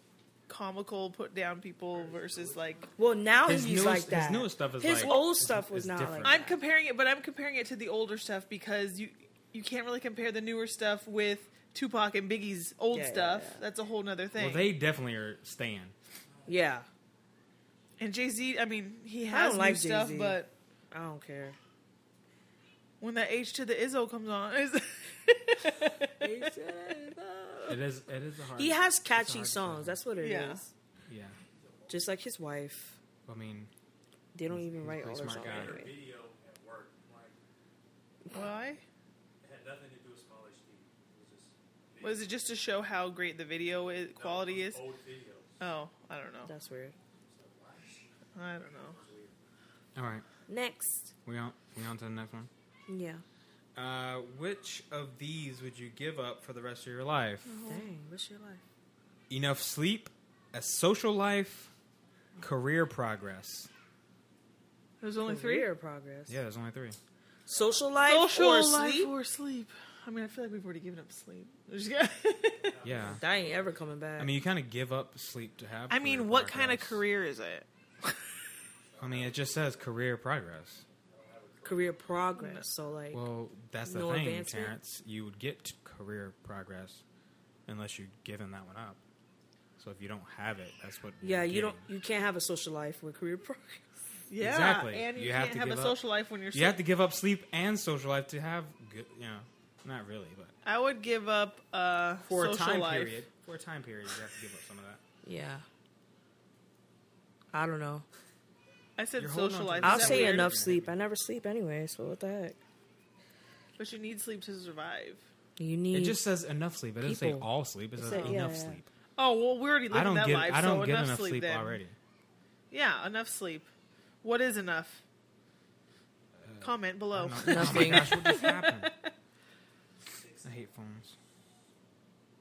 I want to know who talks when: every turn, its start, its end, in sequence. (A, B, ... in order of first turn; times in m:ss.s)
0:00.5-0:02.9 A
0:01.9-0:02.9 B
0:03.0-0:06.5 C
0:03.5-0:06.4 D
0:05.0-0:05.2 A
0:06.2-0:14.7 A
0:12.9-0:13.6 C
0:14.4-0:16.0 D
0:16.3-0:16.6 B
0:16.5-0:16.9 C
0:18.0-0:20.5 A
0:19.3-0:20.4 C
0:20.9-0:21.6 C
0:23.0-0:26.3 A
0:26.2-0:27.8 C
0:27.7-0:30.0 D
0:28.6-0:30.7 C
0:30.2-0:30.6 A
0:31.1-0:31.4 D
0:31.5-0:32.1 B
0:31.9-0:33.0 C
0:33.2-0:33.7 D
0:34.3-0:35.9 C
0:34.5-0:35.8 D
0:35.4-0:37.4 B
0:38.3-0:38.8 A
0:39.4-0:42.3 B
0:42.0-0:44.8 A
0:44.2-0:45.6 B
0:45.6-0:46.5 A
0:46.5-0:47.0 C
0:47.3-0:48.1 B
0:48.4-0:49.0 A
0:48.7-0:49.4 B
0:50.0-0:50.2 D
0:50.5-0:51.1 C
0:51.2-0:52.5 D
0:52.9-0:53.2 C
0:53.8-0:57.5 D
0:57.5-0:57.9 A
0:57.6-0:58.6 C
0:59.3-1:01.7 D
1:02.4-1:03.7 D
1:05.0-1:05.7 A
1:05.2-1:06.4 C
1:06.3-1:07.0 D
1:07.5-1:09.1 C
1:08.0-1:12.8 A
1:12.6-1:13.8 B
1:12.8-1:13.2 D
1:13.0-1:14.3 C
1:14.2-1:17.0 D
1:15.9-1:17.7 A
1:18.9-1:19.9 B
1:19.0-1:20.8 D
1:20.9-1:22.0 B
1:21.6-1:23.2 C
1:22.4-1:22.6 A
1:23.1-1:27.0 D
1:23.8-1:24.7 C
1:27.6-1:29.0 D
1:29.8-1:31.9 D
1:31.2-1:33.9 C
1:34.3-1:36.8 A
1:34.4-1:36.0 D
1:36.5-1:40.5 D
1:40.6-1:43.2 A
1:42.2-1:45.0 D
1:45.2-1:45.6 C
1:47.5-1:48.1 C
1:49.0-1:50.5 A
1:49.2-1:50.9 D
1:49.8-1:52.6 C
1:53.8-1:55.2 A
1:55.6-1:56.2 C
1:55.9-1:58.9 D
1:57.0-1:58.8 C
1:58.1-1:58.4 A
1:59.2-2:01.8 A
1:59.9-2:02.0 D
2:02.7-2:03.7 A
2:04.2-2:05.0 A
2:06.4-2:08.9 D
2:06.6-2:09.1 A
2:07.4-2:08.4 C
2:10.1-2:10.6 B
2:10.4-2:11.1 D